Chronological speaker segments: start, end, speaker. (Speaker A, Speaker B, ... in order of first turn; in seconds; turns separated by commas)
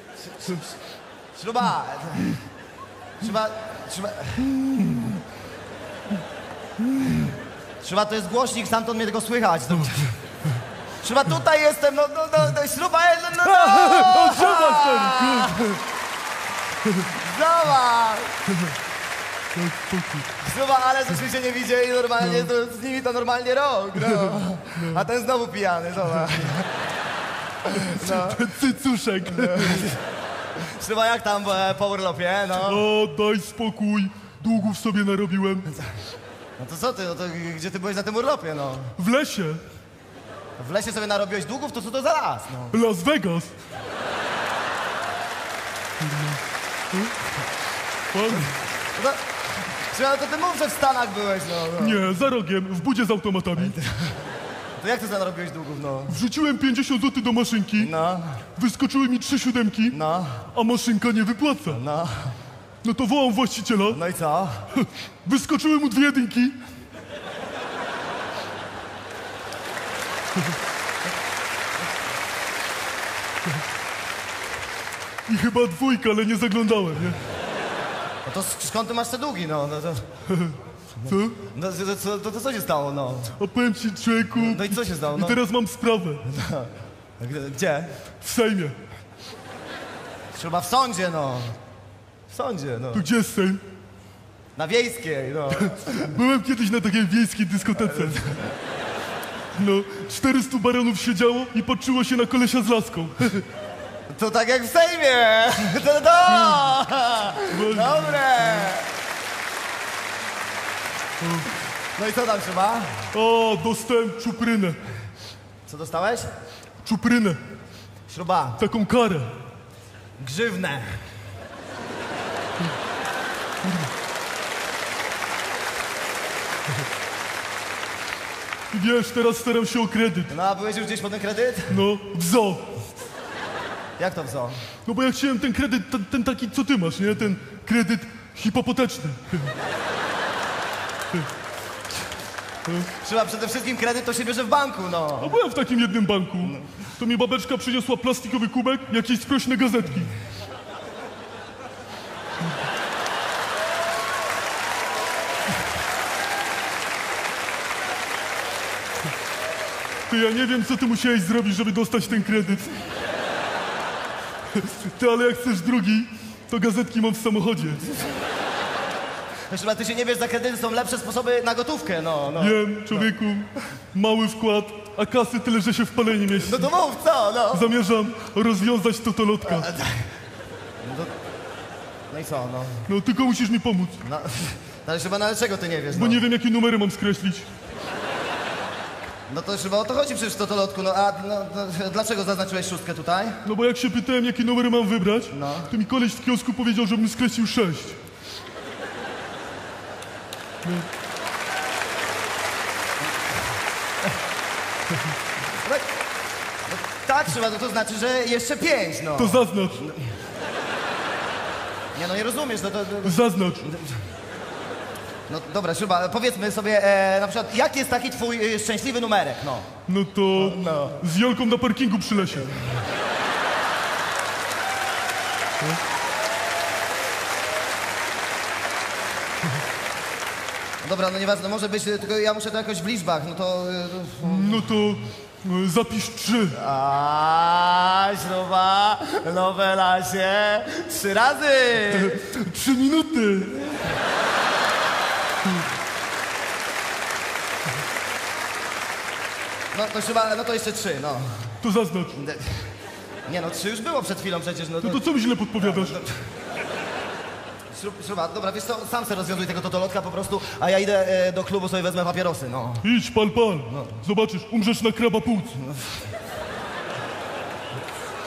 Speaker A: 0.2-0.6, Speaker A: 1.3-2.4, Speaker A: 3.2-4.5, Speaker B: 4.5-5.2, Speaker B: 6.9-7.3, Speaker A: 7.8-10.2, Speaker A: 11.0-15.7, Speaker B: 13.4-15.8, Speaker A: 17.0-18.3, Speaker B: 19.6-20.3, Speaker A: 20.4-26.7, Speaker B: 22.2-22.5, Speaker B: 24.1-25.0, Speaker A: 27.7-28.5, Speaker B: 27.7-29.9, Speaker A: 29.3-30.0, Speaker A: 30.6-32.8, Speaker B: 32.6-35.6, Speaker A: 36.6-38.9, Speaker B: 39.0-39.6, Speaker A: 40.6-42.8, Speaker B: 42.7-43.5, Speaker B: 46.0-46.4, Speaker B: 48.1-48.6, Speaker A: 48.9-49.2, Speaker A: 49.8-52.0, Speaker B: 51.8-53.7, Speaker A: 53.6-54.2, Speaker A: 54.8-56.2, Speaker B: 56.1-57.9, Speaker A: 57.8-58.4, Speaker B: 58.5-60.0, Speaker A: 59.9-60.5, Speaker B: 60.5-61.8, Speaker A: 61.7-62.4, Speaker B: 62.8-64.0, Speaker A: 63.9-64.7, Speaker B: 64.7-66.5, Speaker B: 75.3-77.2, Speaker A: 78.2-80.0, Speaker A: 81.0-83.3, Speaker B: 81.1-81.4, Speaker B: 83.4-86.2, Speaker A: 84.3-85.4, Speaker A: 86.3-87.9, Speaker B: 88.2-88.8, Speaker A: 90.3-91.6, Speaker A: 92.3-93.1, Speaker B: 92.9-93.6, Speaker A: 94.5-96.1, Speaker B: 95.5-98.2, Speaker A: 97.8-98.5, Speaker B: 99.5-103.4, Speaker A: 104.1-108.8, Speaker B: 106.3-106.7, Speaker B: 107.5-108.7, Speaker B: 111.2-111.5, Speaker A: 112.0-113.1, Speaker B: 113.1-114.8, Speaker A: 115.7-116.3, Speaker B: 116.8-117.4, Speaker A: 118.1-118.6, Speaker B: 118.6-119.3, Speaker A: 120.2-121.1, Speaker B: 123.6-123.9, Speaker B: 128.7-130.3, Speaker A: 130.3-131.8, Speaker B: 131.7-132.7, Speaker A: 134.0-134.6, Speaker B: 134.8-139.5, Speaker B: 142.7-142.9, Speaker A: 143.0-145.4, Speaker B: 145.2-150.1, Speaker A: 146.5-146.8, Speaker B: 160.1-162.7, Speaker B: 164.5-167.8, Speaker A: 169.5-173.1, Speaker B: 172.4-176.7, Speaker A: 176.3-177.7, Speaker B: 177.5-179.7, Speaker A: 179.6-180.0, Speaker A: 180.8-181.1, Speaker A: 182.1-182.8, Speaker B: 182.9-184.0, Speaker A: 184.0-186.2, Speaker B: 185.9-187.4, Speaker A: 189.3-193.4, Speaker B: 193.4-198.0, Speaker A: 195.3-195.7, Speaker A: 206.7-210.0, Speaker B: 209.2-209.8, Speaker A: 211.9-214.0, Speaker B: 213.0-213.6, Speaker A: 215.3-219.8, Speaker B: 219.9-222.5, Speaker A: 220.4-221.0, Speaker A: 230.8-234.7, Speaker B: 234.2-236.6, Speaker A: 236.5-242.3, Speaker B: 241.9-243.6, Speaker A: 249.7-251.5, Speaker B: 251.6-252.1, Speaker A: 252.1-252.7, Speaker A: 253.3-255.0, Speaker B: 254.8-255.9, Speaker A: 255.6-256.2, Speaker A: 257.7-262.8, Speaker B: 262.8-265.6, Speaker A: 263.7-264.0, Speaker A: 265.6-266.0